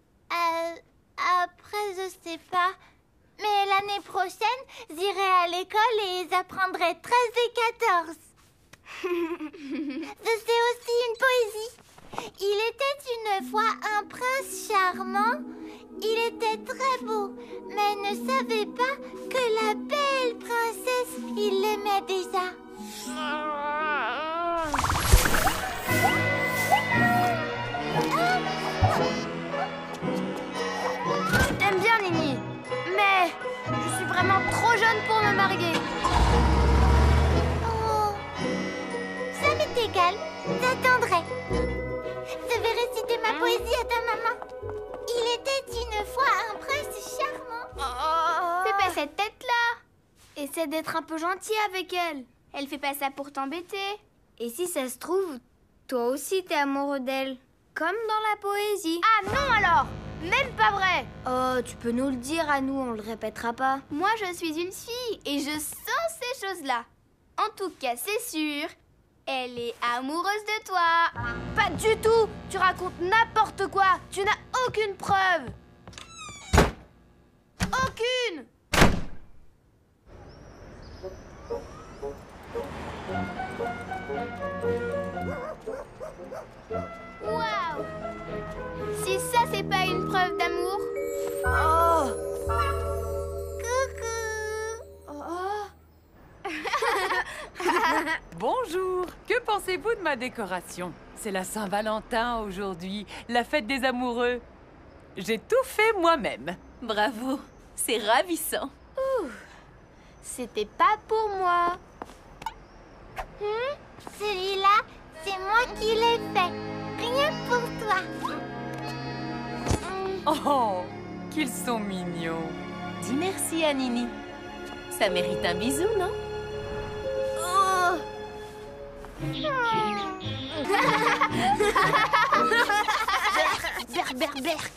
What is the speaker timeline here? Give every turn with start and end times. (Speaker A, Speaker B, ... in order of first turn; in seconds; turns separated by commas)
Speaker A: 0.3-2.8, Speaker A: 3.4-8.2, Speaker A: 10.1-15.4, Speaker A: 16.0-22.6, Speaker B: 31.4-35.8, Speaker A: 37.6-38.3, Speaker A: 39.3-41.3, Speaker A: 42.4-44.4, Speaker A: 45.1-47.7, Speaker B: 47.9-49.0, Speaker C: 48.6-49.8, Speaker B: 50.4-52.3, Speaker C: 52.5-54.0, Speaker B: 54.4-59.1, Speaker C: 59.0-61.1, Speaker B: 61.2-63.9, Speaker C: 63.9-68.7, Speaker C: 69.3-71.1, Speaker B: 71.5-75.6, Speaker B: 77.7-78.5, Speaker C: 87.2-87.9, Speaker C: 88.9-90.9, Speaker B: 91.5-92.2, Speaker A: 93.6-94.8, Speaker B: 95.1-95.7, Speaker C: 96.8-97.8, Speaker B: 97.7-98.0, Speaker D: 98.3-104.5, Speaker D: 105.2-106.6, Speaker E: 106.8-108.7, Speaker C: 109.0-109.4, Speaker C: 110.2-111.8, Speaker C: 113.4-113.7, Speaker A: 114.1-118.1, Speaker D: 120.3-122.6, Speaker E: 123.0-124.2, Speaker E: 124.9-126.2, Speaker B: 127.4-128.0, Speaker B: 131.5-132.4, Speaker B: 133.8-134.3